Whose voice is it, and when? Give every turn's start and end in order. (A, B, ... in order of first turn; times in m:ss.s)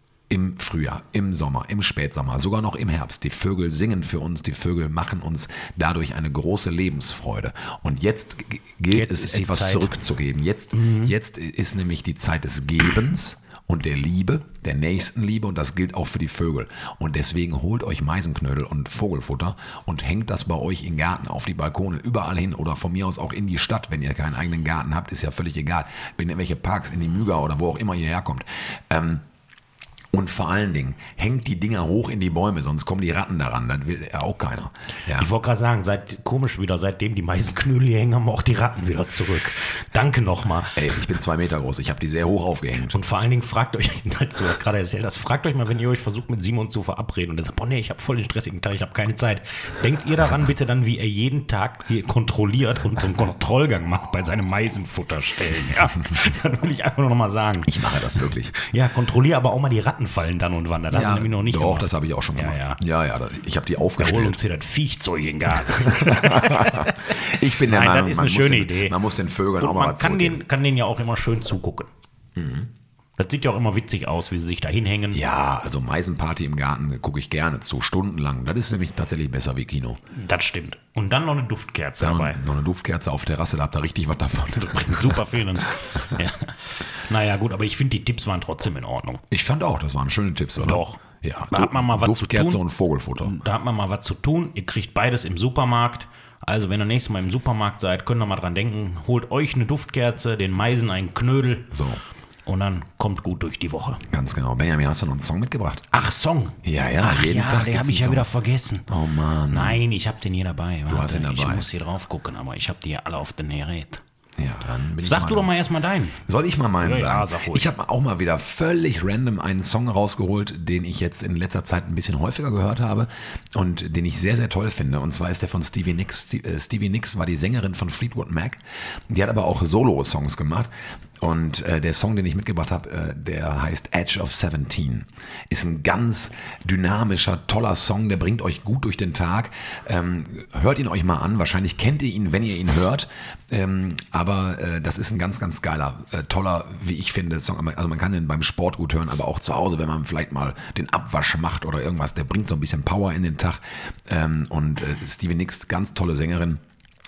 0:00.3-0:29.2 A
0:08.9-0:10.0 B
0:10.7-0:11.2 B
0:30.1-0:35.3 A
0:35.1-0:41.1 B
0:40.7-0:43.0 A
0:42.8-1:02.8 B
0:57.6-0:58.5 A
1:00.9-1:04.4 A
1:04.0-1:09.0 B
1:05.8-1:10.4 A
1:09.6-1:11.9 B
1:12.4-1:12.7 A
1:13.2-1:15.2 B
1:15.1-1:20.0 A
1:20.1-1:22.4 B
1:22.0-1:25.2 A
1:24.6-1:29.2 B
1:29.3-1:33.4 A
1:30.6-1:31.0 B
1:31.5-1:32.6 B
1:33.2-1:41.8 B
1:41.7-1:42.0 A
1:42.5-1:44.1 B
1:44.1-1:45.9 A
1:45.9-1:48.9 B
1:46.6-1:48.3 A
1:48.9-1:49.8 A
1:49.5-1:54.0 B
1:50.9-1:51.7 A
1:54.4-1:55.6 A
1:55.0-1:56.2 B
1:56.2-2:36.6 A
1:56.8-1:57.7 B